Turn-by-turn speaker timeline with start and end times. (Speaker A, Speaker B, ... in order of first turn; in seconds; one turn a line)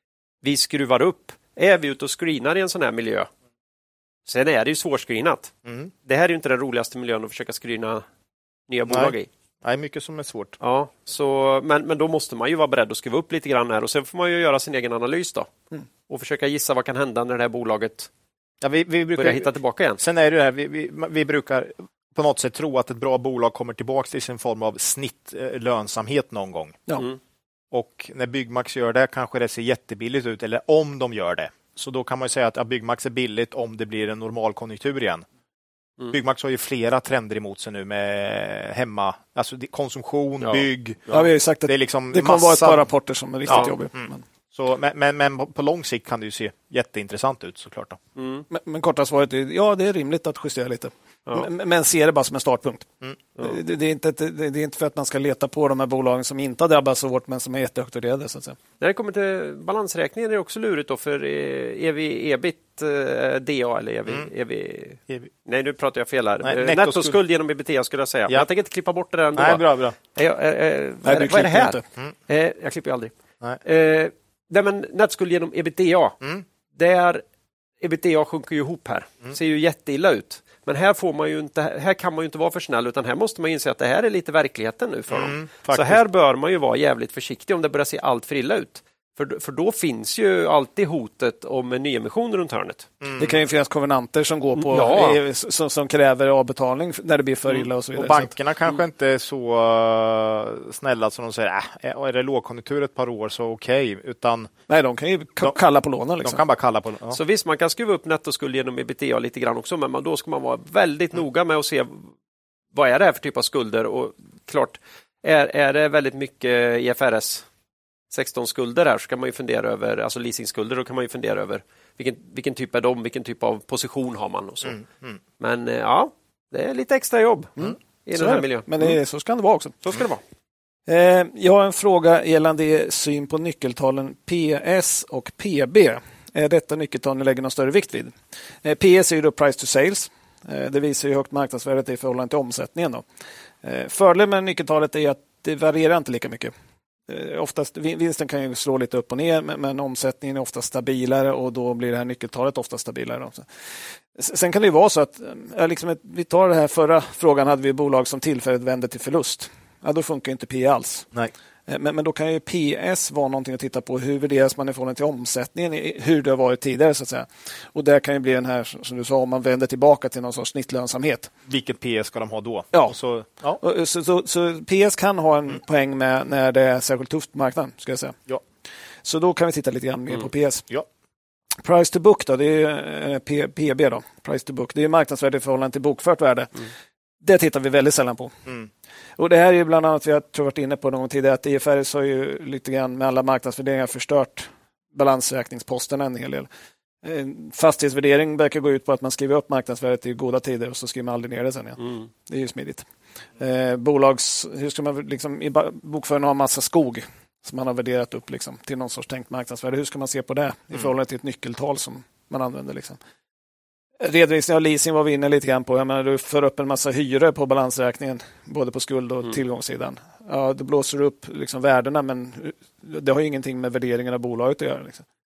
Speaker A: 0.4-3.3
Speaker A: 4.3-5.5
Speaker A: 6.0-8.1
Speaker A: 8.7-9.3
Speaker B: 8.9-10.6
Speaker A: 10.6-15.5
Speaker A: 16.1-18.1
Speaker B: 18.6-26.9
Speaker A: 19.2-20.0
Speaker B: 27.7-35.3
Speaker B: 36.1-42.8
Speaker A: 40.4-41.2
Speaker C: 41.1-44.2
Speaker B: 43.5-48.0
Speaker A: 48.2-48.5
Speaker C: 48.5-52.9
Speaker C: 53.4-58.6
Speaker A: 58.8-76.2
Speaker B: 66.4-67.2
Speaker B: 69.4-70.0
Speaker C: 71.0-71.8
Speaker A: 76.7-77.2
Speaker A: 77.8-92.9
Speaker B: 85.1-86.0
Speaker B: 93.0-93.4
Speaker C: 93.2-98.3
Speaker A: 94.6-95.2
Speaker B: 98.0-104.5
Speaker C: 104.7-106.4
Speaker B: 106.2-107.2
Speaker A: 107.1-112.1
Speaker A: 112.7-117.5
Speaker A: 118.1-124.8
Speaker B: 124.7-125.2
Speaker A: 125.4-128.9
Speaker C: 127.6-129.8
Speaker A: 129.8-130.2
Speaker C: 130.9-143.0
Speaker C: 143.6-146.5
Speaker C: 147.1-153.5
Speaker C: 154.2-161.1
Speaker C: 161.7-171.3
Speaker B: 171.5-173.6
Speaker C: 173.6-178.2
Speaker C: 179.1-180.7
Speaker C: 181.6-186.7
Speaker C: 187.2-188.3
Speaker C: 189.2-196.5
Speaker C: 197.0-202.9
Speaker C: 203.4-213.0
Speaker C: 214.0-225.1